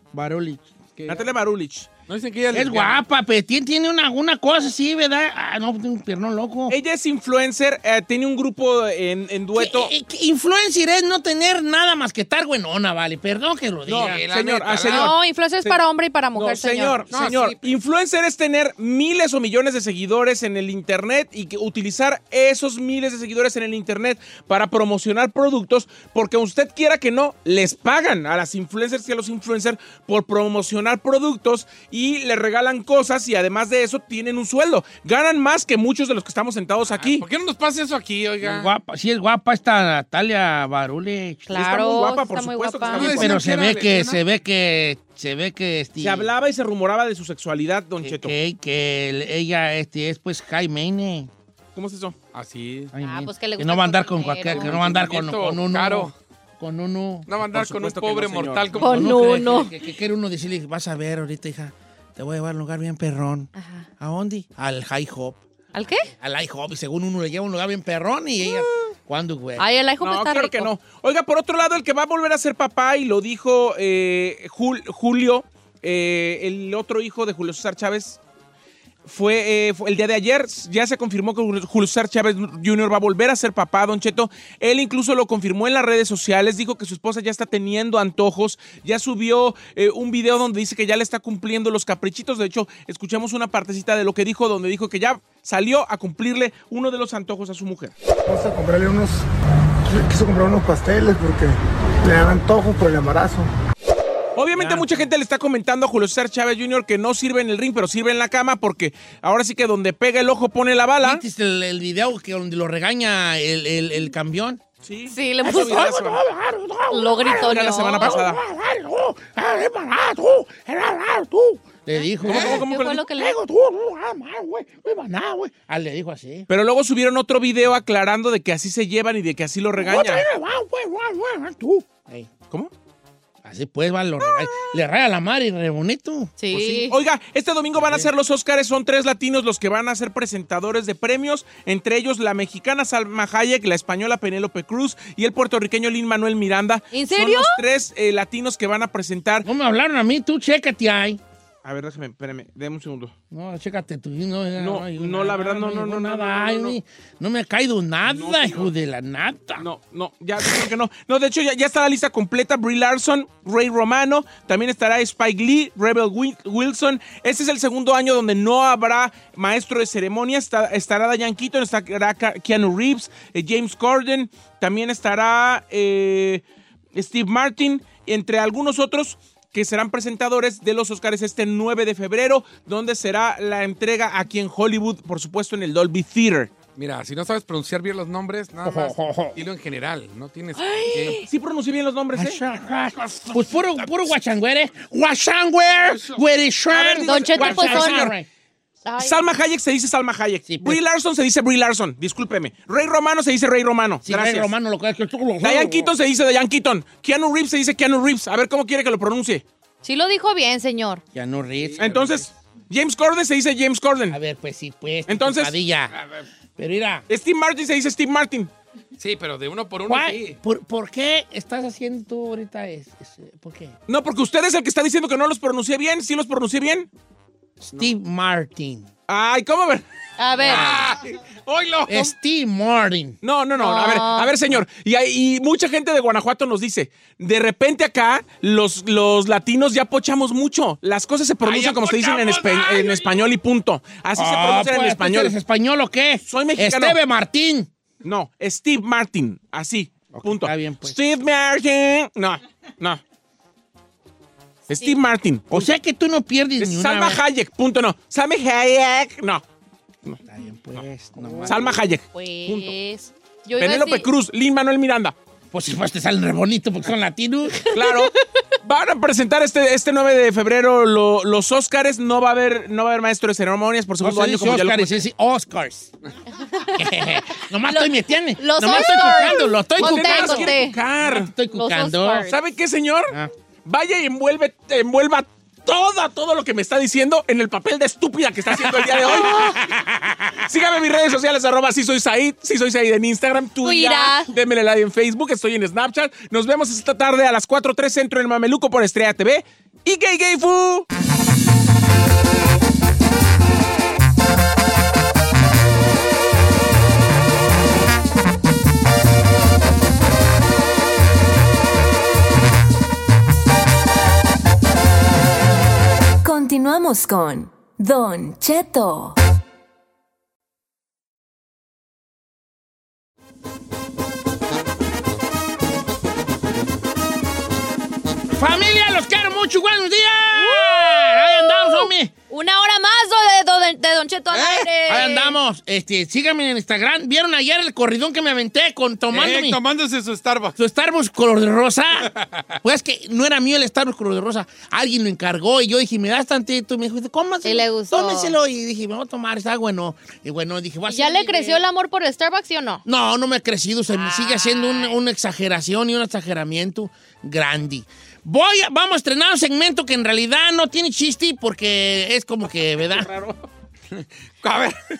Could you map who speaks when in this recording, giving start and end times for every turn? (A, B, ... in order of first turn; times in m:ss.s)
0:00.1-0:00.7 A
0:01.0-0:01.3 B
0:01.1-0:01.9 C
0:02.0-0:03.0 B
0:02.5-0:06.8 A
0:06.7-0:09.9 C
0:09.5-0:14.2 A
0:13.9-0:15.8 C
0:13.9-0:15.2 B
0:14.9-0:17.0 D
0:16.3-0:37.2 C
0:17.1-0:17.7 B
0:36.9-0:38.7 B
0:38.4-0:41.6 A
0:41.5-0:43.2 D
0:41.5-0:43.4 C
0:42.9-0:44.2 B
0:43.0-0:46.3 A
0:46.0-0:48.3 C
0:48.0-0:51.3 A
0:51.7-0:52.2 C
0:52.3-0:52.9 B
0:52.9-0:57.3 A
0:53.0-0:54.7 D
0:54.4-0:56.1 B
0:57.3-0:59.3 B
0:57.4-0:58.8 C
0:58.8-0:59.7 D
0:58.8-1:05.4 A
1:03.6-1:03.9 D
1:05.7-1:06.1 D
1:06.0-1:09.6 A
1:09.6-1:10.7 D
1:10.0-1:18.2 C
1:19.0-1:37.9 C
1:38.3-1:39.2 E
1:39.8-1:43.5 E
1:44.4-1:51.2 C
1:44.6-1:44.9 A
1:51.0-1:54.6 A
1:54.8-1:56.2 C
1:55.1-1:55.9 D
1:55.4-2:06.5 A
1:56.9-1:58.2 D
1:57.3-1:58.4 C
2:02.2-2:03.0 C
2:02.5-2:03.3 D
2:06.5-2:10.3 C
2:09.8-2:12.3 A
2:13.4-2:16.3 A
2:16.4-2:16.9 D
2:16.5-2:29.5 C
2:17.8-2:18.1 A
2:26.9-2:27.6 D
2:29.4-2:31.2 A
2:31.6-2:33.1 C
2:33.3-2:39.6 A
2:34.6-2:36.8 C
2:38.0-2:38.7 C
2:39.6-2:56.4 C
2:56.9-3:06.5 C
3:06.8-3:11.2 B
3:08.6-3:09.4 A
3:10.6-3:11.2 D
3:11.2-3:12.4 C
3:12.1-3:18.3 A
3:13.0-3:13.9 B
3:16.7-3:18.1 C
3:17.0-3:18.1 D
3:18.8-3:19.2 D
3:19.0-3:24.5 C
3:20.5-3:20.8 A
3:24.0-3:25.9 A
3:25.4-3:29.4 C
3:29.8-3:31.0 D
3:31.1-3:32.1 A
3:31.6-3:32.2 B
3:31.8-3:34.2 C
3:34.1-3:35.9 A
3:35.1-3:35.5 C
3:35.9-3:36.2 B
3:36.6-3:37.0 A
3:37.1-3:38.5 C
3:39.0-3:40.4 B
3:39.9-3:43.8 A
3:43.9-3:46.9 C
3:47.7-3:48.9 A
3:49.1-3:49.8 C
3:50.2-3:50.7 D
3:50.4-3:52.1 B
3:51.9-3:53.2 A
3:53.2-4:05.3 C
3:53.6-3:54.4 D
4:01.4-4:03.4 B
4:04.1-4:07.7 A
4:06.2-4:07.0 C
4:08.0-4:13.0 C
4:10.1-4:11.0 A
4:14.7-4:15.7 C
4:15.5-4:17.2 A
4:16.6-4:19.4 C
4:20.2-4:21.8 A
4:21.4-4:22.7 C
4:22.1-4:24.1 D
4:23.6-4:25.1 C
4:25.5-4:27.6 A
4:27.7-4:28.1 C
4:28.6-4:35.0 C
4:34.0-4:35.9 A
4:36.5-4:36.8 D
4:36.8-4:42.3 A
4:37.6-4:40.8 D
4:39.8-4:41.3 C
4:41.5-4:42.3 D
4:42.2-4:43.1 C
4:43.6-4:49.6 C
4:49.0-4:50.4 A
4:49.1-4:49.5 D
4:50.4-5:00.9 C
4:53.6-4:54.3 D
5:16.2-5:19.2 F
5:28.3-5:32.1 A
5:30.3-5:35.4 D
5:34.3-5:35.0 B
5:34.8-5:39.6 A
5:39.1-5:40.6 B
5:40.6-5:51.6 A
5:47.4-5:48.3 D
5:50.9-5:52.8 D
5:52.8-6:03.1 A
5:53.9-5:55.0 D
6:03.1-6:03.3 C
6:03.9-6:04.8 B